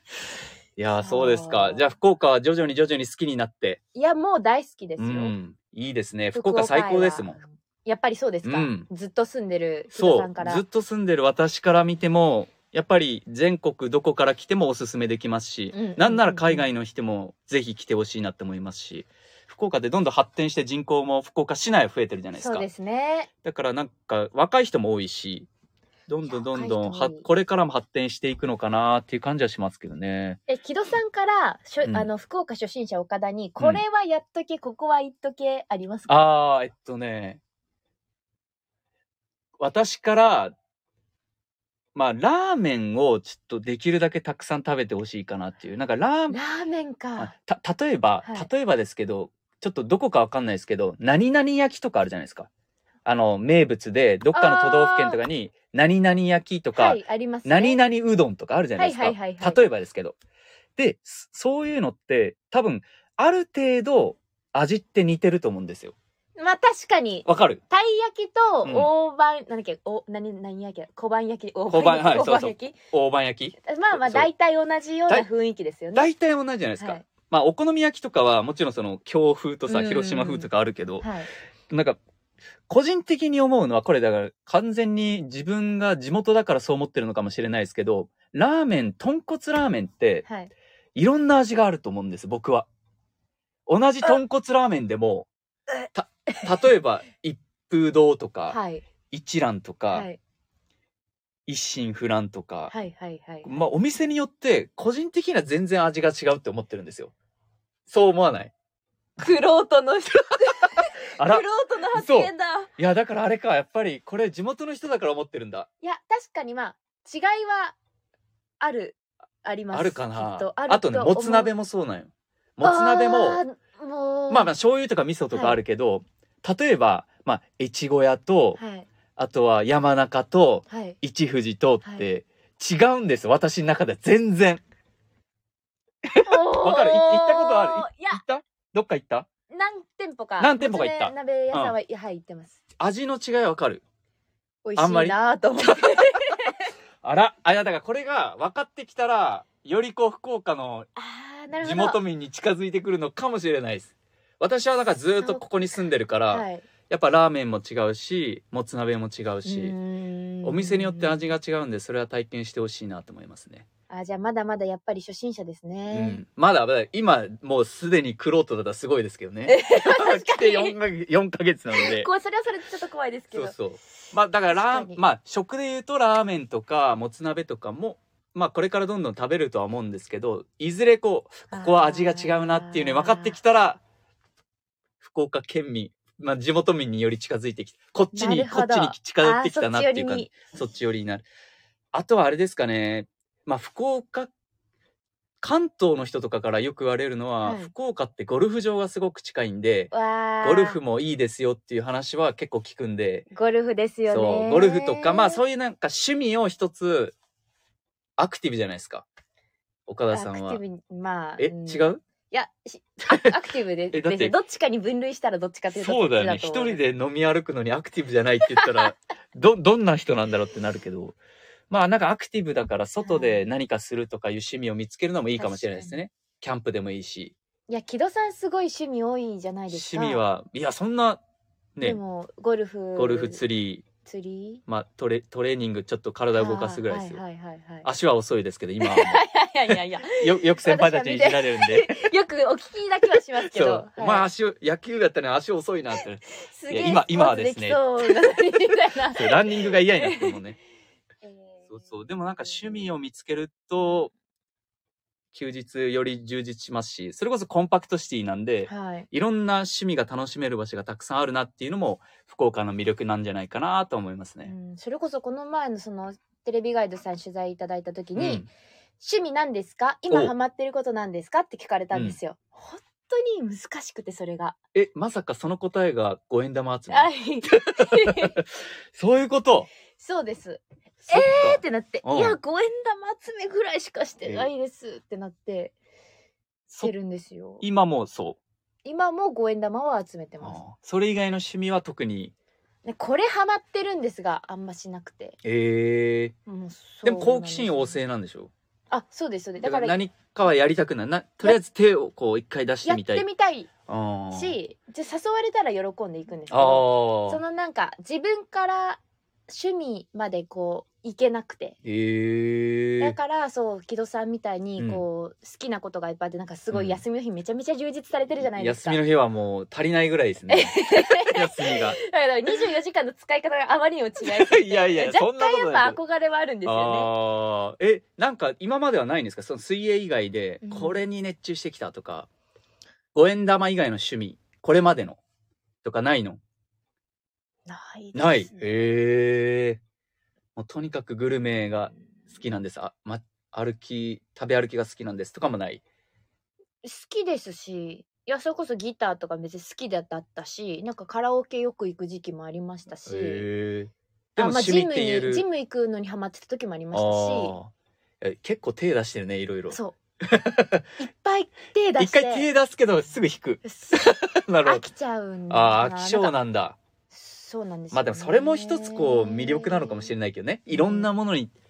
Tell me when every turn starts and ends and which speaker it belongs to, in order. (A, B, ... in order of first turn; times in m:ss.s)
0:00.8-0:03.8 A
0:01.0-0:01.9 B
0:03.9-0:05.3 B
0:05.0-0:07.4 A
0:06.3-0:10.6 B
0:08.4-0:08.9 A
0:09.9-0:22.6 A
0:15.7-0:16.7 B
0:22.3-0:23.3 B
0:23.4-0:25.5 A
0:26.1-0:30.4 A
0:26.3-0:27.3 B
0:30.5-0:36.2 B
0:36.1-0:37.4 A
0:39.6-0:40.5 A
0:41.9-0:46.4 A
0:46.3-0:47.3 B
0:47.2-0:52.5 A
0:48.2-0:48.5 B
0:53.0-1:00.2 A
0:54.3-0:55.2 B
0:56.7-0:57.8 B
0:58.8-0:59.7 B
1:00.8-1:05.9 A
1:06.4-1:12.7 B
1:07.2-1:07.6 A
1:08.6-1:08.9 A
1:11.7-1:14.3 A
1:13.6-1:16.1 B
1:15.9-1:21.1 A
1:16.8-1:17.0 B
1:19.7-1:20.5 B
1:21.0-1:21.3 B
1:21.7-1:22.0 A
1:22.7-1:30.2 A
1:30.2-1:30.5 B
1:30.9-1:32.7 A
1:33.7-1:35.3 A
1:35.9-1:38.6 A
1:38.5-1:38.8 B
1:39.1-1:40.1 A
1:39.9-1:40.2 B
1:41.5-1:42.7 A
1:42.7-1:43.6 B
1:43.4-1:47.1 A
1:47.9-1:48.5 A
1:49.2-1:52.7 B
1:51.2-1:55.7 A
1:55.8-1:57.8 B
1:58.6-2:01.5 B
1:59.7-2:03.4 A
2:02.6-2:04.5 B
2:04.3-2:08.6 A
2:05.3-2:05.6 B
2:08.6-2:08.9 B
2:09.2-2:14.6 A
2:10.7-2:11.0 B
2:11.8-2:12.1 B
2:16.0-2:19.3 A
2:16.2-2:18.2 B
2:19.5-2:22.6 B
2:20.4-2:21.7 A
2:22.8-2:23.8 A
2:24.6-2:26.7 B
2:24.8-2:25.9 A
2:27.0-2:30.9 A
2:31.0-2:32.0 B
2:31.6-2:39.7 A
2:35.2-2:35.4 B
2:36.3-2:36.6 B
2:39.4-2:41.3 B
2:40.4-2:43.6 A
2:43.9-2:46.2 B
2:45.9-2:52.1 A
2:49.4-2:50.8 B
2:51.7-2:53.5 B
2:53.3-3:03.8 A
2:54.5-2:55.0 B
3:01.5-3:03.4 B
3:05.0-3:11.2 A
3:08.1-3:10.3 B
3:11.9-3:14.3 A
3:15.4-3:23.3 A
3:17.4-3:17.7 B
3:19.9-3:20.8 B
3:23.3-3:25.4 B
3:24.1-3:27.1 A
3:28.2-3:29.0 A
3:29.9-3:30.6 A
3:30.1-3:36.8 B
3:31.4-3:32.0 A
3:33.9-3:34.4 A
3:35.7-3:41.2 A
3:38.5-3:38.8 B
3:41.7-3:47.3 A
3:43.0-3:43.5 B
3:45.4-3:46.0 B
3:47.7-3:50.2 B
3:49.7-3:51.2 A
3:51.8-3:53.4 B
3:53.0-3:53.8 A
3:54.0-3:54.6 B
3:54.7-3:57.2 A
3:56.4-3:57.9 B
3:57.8-4:02.0 A
3:58.8-4:04.2 B
4:03.4-4:07.8 A
4:06.4-4:10.4 B
4:09.1-4:10.6 A
4:11.2-4:12.9 B
4:11.7-4:14.1 A
4:13.8-4:14.0 B
4:15.3-4:24.5 A
4:18.7-4:19.1 B
4:24.4-4:28.5 B
4:28.2-4:28.5 A
4:29.0-4:34.6 B
4:34.7-4:39.7 A
4:36.9-4:38.4 B
4:40.0-4:45.7 B
4:41.0-4:42.4 A
4:44.2-4:44.5 A
4:46.8-4:47.6 B
4:47.6-4:48.4 A
4:48.8-4:50.6 B
4:50.4-4:52.3 A
4:52.8-4:55.4 B
4:55.4-4:56.3 A
4:56.5-4:58.0 B
4:57.0-4:58.5 A
4:58.9-5:00.0 B
4:59.6-5:03.2 A
5:02.8-5:03.7 B
5:03.9-5:04.6 A
5:04.3-5:11.8 B
5:06.5-5:07.4 A
5:11.8-5:13.2 A
5:13.0-5:19.0 B
5:14.8-5:15.0 A
5:16.7-5:17.0 A
5:18.4-5:22.0 A
5:20.5-5:27.1 B
5:24.2-5:26.0 A
5:26.6-5:32.3 A
5:30.6-5:31.0 B
5:33.1-5:35.2 A
5:35.8-5:36.4 A
5:37.7-5:38.6 B
5:38.1-5:39.8 A
5:40.6-5:45.8 A
5:46.8-5:53.4 B
5:53.1-5:55.4 A
5:54.4-5:57.5 B
5:56.9-6:00.8 A
5:59.7-5:59.9 B
6:01.0-6:02.5 B
6:02.0-6:04.8 A
6:03.6-6:06.3 B
6:05.5-6:06.8 A
6:07.1-6:10.1 B
6:07.9-6:11.5 A
6:10.7-6:11.1 B